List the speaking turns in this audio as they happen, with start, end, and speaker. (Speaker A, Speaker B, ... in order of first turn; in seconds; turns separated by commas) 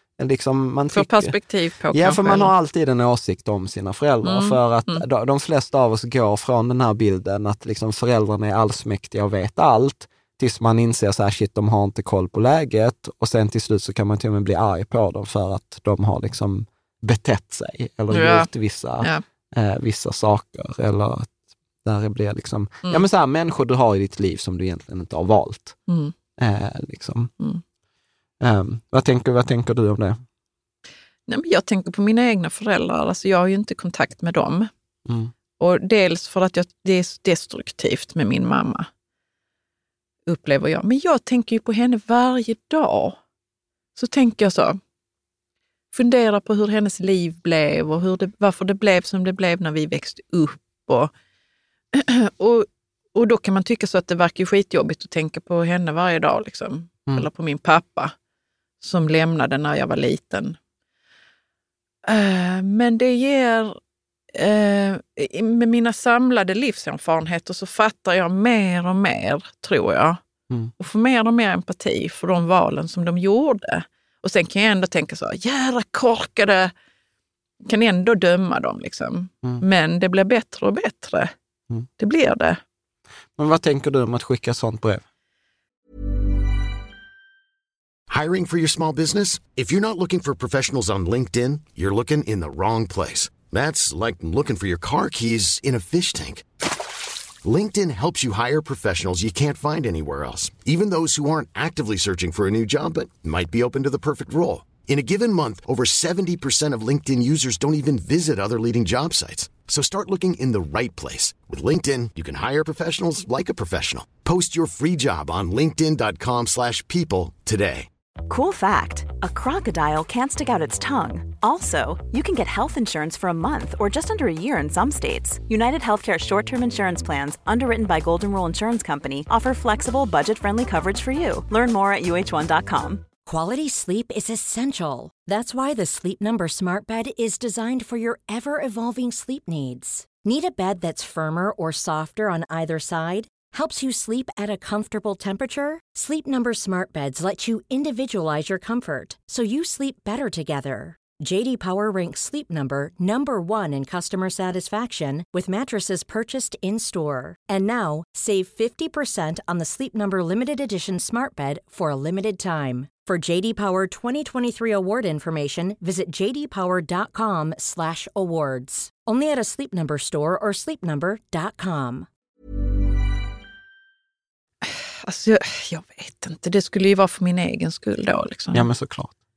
Speaker A: 0.2-1.4, Speaker B: 0.9-2.5, Speaker A: 1.9-25.8, Speaker B: 4.2-5.0, Speaker B: 18.1-18.5, Speaker B: 25.9-26.1, Speaker A: 26.4-27.3, Speaker A: 28.4-30.2, Speaker B: 31.3-34.7, Speaker A: 35.0-35.3, Speaker B: 35.6-38.9, Speaker B: 40.2-43.2, Speaker B: 44.0-44.8, Speaker B: 45.9-51.1, Speaker B: 51.9-58.1, Speaker B: 58.8-60.6, Speaker B: 62.0-63.8, Speaker B: 64.3-70.2, Speaker B: 70.8-76.7, Speaker B: 77.7-81.3, Speaker B: 82.0-82.6, Speaker A: 83.3-85.0, Speaker C: 88.1-96.4, Speaker C: 97.4-117.9, Speaker D: 118.3-133.1, Speaker E: 133.2-172.1, Speaker B: 174.6-178.7, Speaker A: 178.5-179.1